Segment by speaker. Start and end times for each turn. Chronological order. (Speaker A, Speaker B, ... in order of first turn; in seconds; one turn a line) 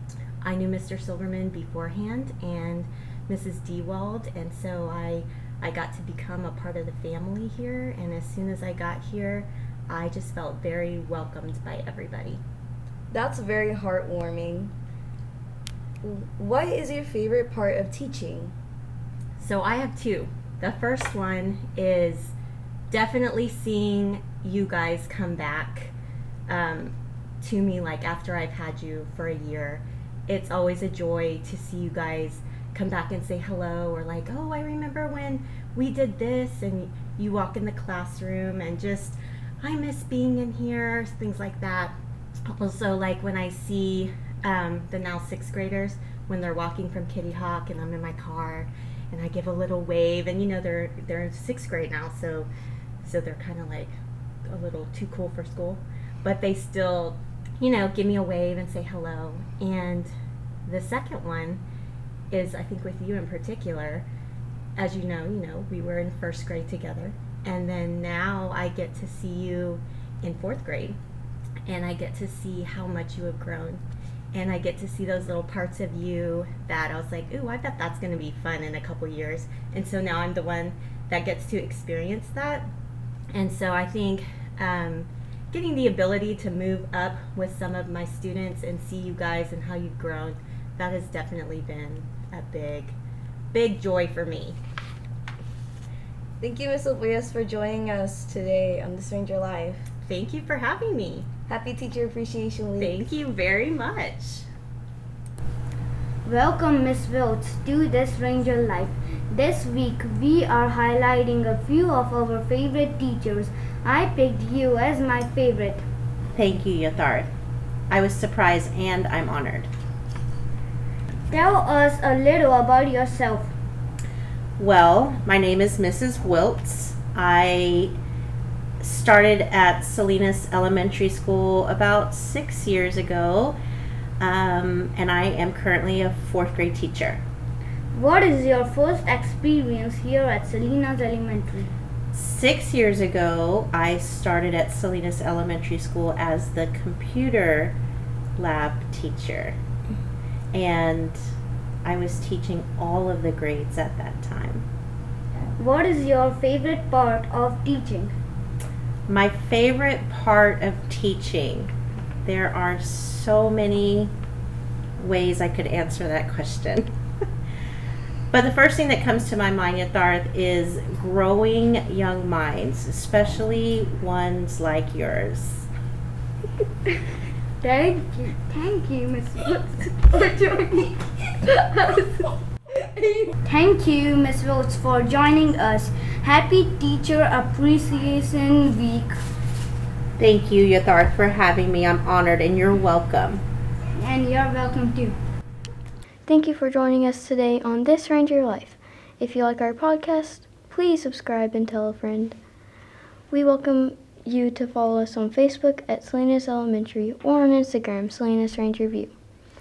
Speaker A: 0.5-12.4
Speaker B: 13.1-14.7
Speaker B: 16.0-18.5
Speaker A: 19.4-22.3
Speaker A: 22.9-25.9
Speaker A: 26.5-26.9
Speaker A: 27.4-39.1
Speaker A: 39.6-41.9
Speaker A: 42.6-52.5
Speaker A: 53.0-53.9
Speaker A: 54.6-60.1
Speaker A: 60.7-61.6
Speaker A: 62.3-64.0
Speaker A: 64.8-70.9
Speaker A: 71.7-73.8
Speaker A: 74.3-82.6
Speaker A: 83.3-92.9
Speaker A: 93.5-94.6
Speaker B: 96.4-99.9
Speaker A: 100.1-101.2
Speaker B: 101.5-103.1
Speaker A: 102.8-104.5
Speaker C: 106.3-115.8
Speaker D: 116.3-117.3
Speaker D: 117.9-119.7
Speaker C: 121.3-123.3
Speaker D: 124.6-127.9
Speaker D: 128.8-133.6
Speaker D: 134.2-137.2
Speaker C: 137.9-141.7
Speaker D: 142.1-147.8
Speaker D: 148.4-149.6
Speaker D: 150.5-151.2
Speaker D: 151.8-154.7
Speaker C: 155.6-158.1
Speaker D: 159.1-161.7
Speaker D: 162.2-164.1
Speaker D: 165.0-166.9
Speaker D: 168.3-175.7
Speaker E: 177.6-178.4
Speaker C: 178.0-179.0
Speaker C: 179.8-180.9
Speaker C: 181.5-182.1
Speaker E: 183.4-185.9
Speaker C: 184.5-188.9
Speaker E: 188.6-189.1
Speaker D: 190.2-193.4
Speaker C: 194.0-195.2
Speaker E: 196.2-202.4
Speaker E: 203.3-209.2